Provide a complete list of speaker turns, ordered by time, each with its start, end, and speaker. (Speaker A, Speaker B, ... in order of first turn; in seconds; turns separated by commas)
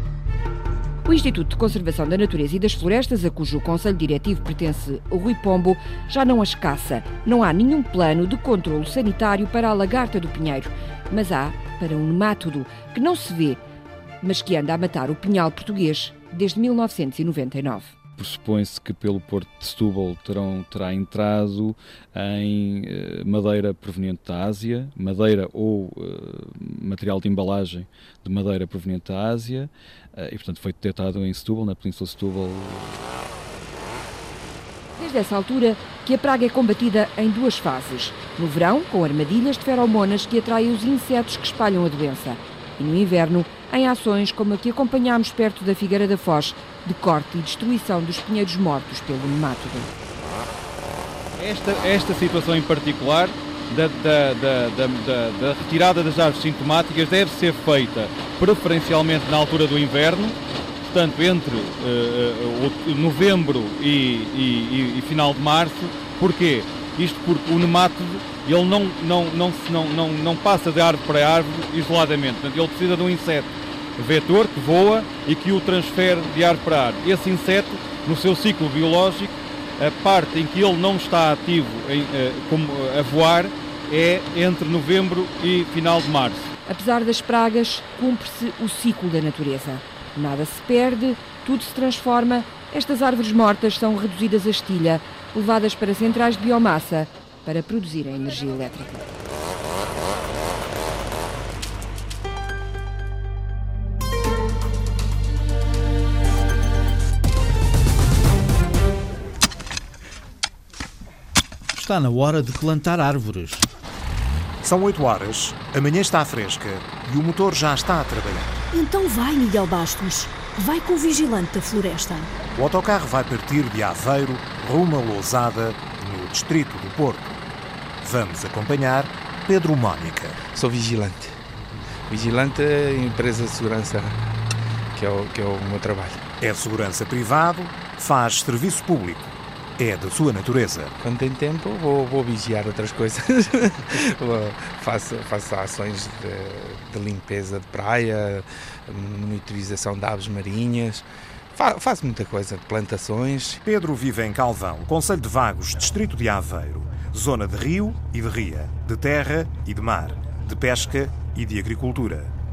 Speaker A: 1.1-13.6, Speaker A: 14.2-18.0, Speaker B: 18.2-32.9, Speaker A: 35.0-49.9, Speaker B: 51.4-60.4, Speaker B: 60.9-86.5, Speaker A: 86.6-99.0, Speaker C: 111.7-113.7, Speaker D: 114.6-118.5, Speaker E: 118.7-122.3, Speaker D: 122.5-127.3, Speaker D: 128.0-130.3, Speaker F: 130.5-131.3, Speaker F: 132.1-134.2, Speaker F: 134.9-136.2, Speaker D: 136.4-140.9, Speaker F: 141.0-153.6, Speaker D: 153.6-162.3